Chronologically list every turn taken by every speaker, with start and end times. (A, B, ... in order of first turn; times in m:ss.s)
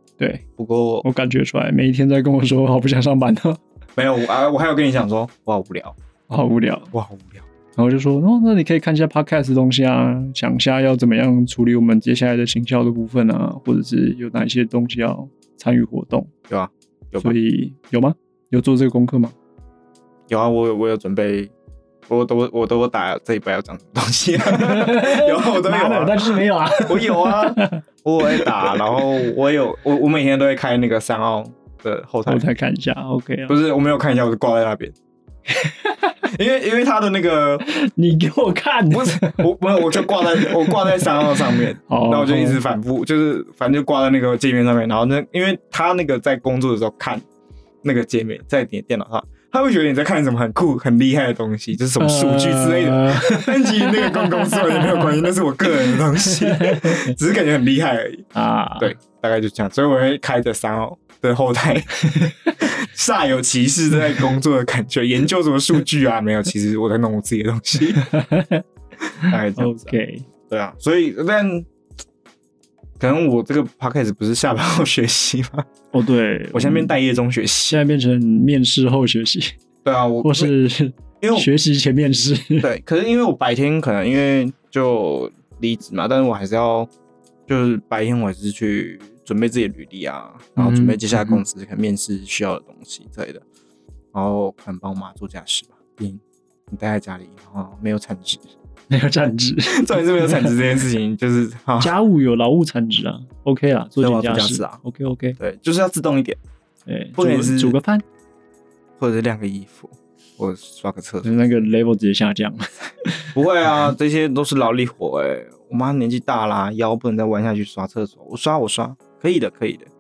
0:00.2-0:00.4 A
0:00.6-0:01.0 B
0:01.0-0:03.6 A
0:04.0-0:06.0 B
0:06.3-0:06.9 A
0:06.9-0:07.5 B
0:07.8-0:16.3 A
0:16.5-0:17.4 B
0:17.2-0:19.4 A
0:20.3-0:21.5 B
0:22.1-0:32.4 B
0:24.4-0:28.8 A
0:32.3-0:33.6 A
0:33.5-0:35.0 B
0:35.5-0:36.2 A
0:36.2-0:37.6 B
0:37.6-0:42.6 A
0:38.9-0:47.2 B
0:47.8-0:58.3 B
0:52.0-0:55.3 A
0:55.8-0:57.1 A
0:58.4-0:59.0 A
0:58.8-1:02.0 B
1:02.1-1:02.5 A
1:02.6-1:08.1 B
1:08.0-1:08.6 A
1:09.2-1:11.7 B
1:09.2-1:10.3 A
1:13.0-1:15.7 B
1:15.9-1:17.0 A
1:16.5-1:17.8 B
1:17.7-1:19.5 A
1:19.8-1:20.5 B
1:20.2-1:22.7 A
1:21.2-1:21.5 B
1:22.6-1:26.9 B
1:27.5-1:33.4 B
1:30.6-1:31.4 A
1:34.1-1:38.5 B
1:38.9-1:40.6 A
1:39.7-1:41.9 B
1:41.8-1:45.4 A
1:44.0-1:44.8 B
1:45.4-1:46.4 B
1:46.9-1:48.0 A
1:47.2-1:47.8 B
1:49.0-1:51.4 B
1:51.2-1:53.3 A
1:53.4-1:59.9 B